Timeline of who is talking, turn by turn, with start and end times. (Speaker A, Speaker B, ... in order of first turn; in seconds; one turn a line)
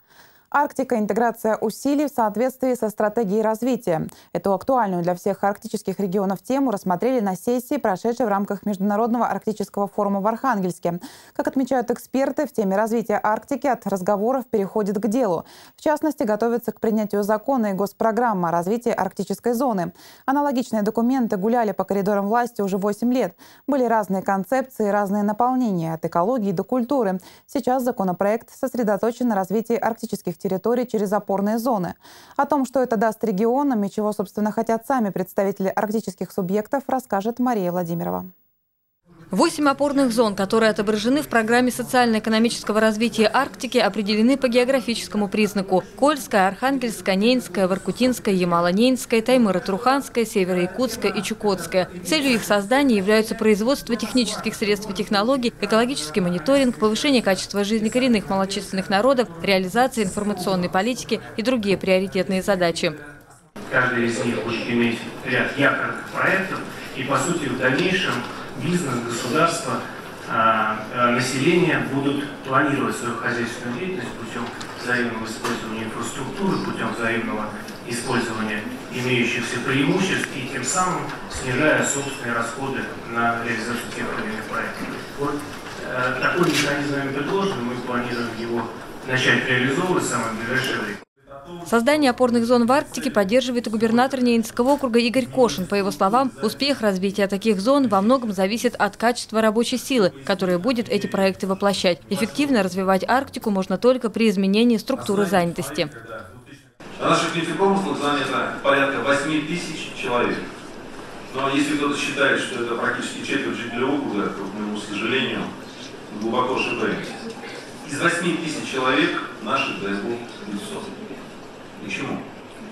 Speaker A: 0.5-38.3
Speaker B: 39.3-63.0
Speaker C: 63.7-91.0
Speaker D: 91.2-98.3
Speaker B: 91.7-105.9
Speaker D: 100.0-102.7
Speaker D: 104.9-110.4
Speaker D: 111.3-115.5
Speaker D: 116.1-117.2
Speaker D: 117.8-121.0
Speaker D: 121.8-122.2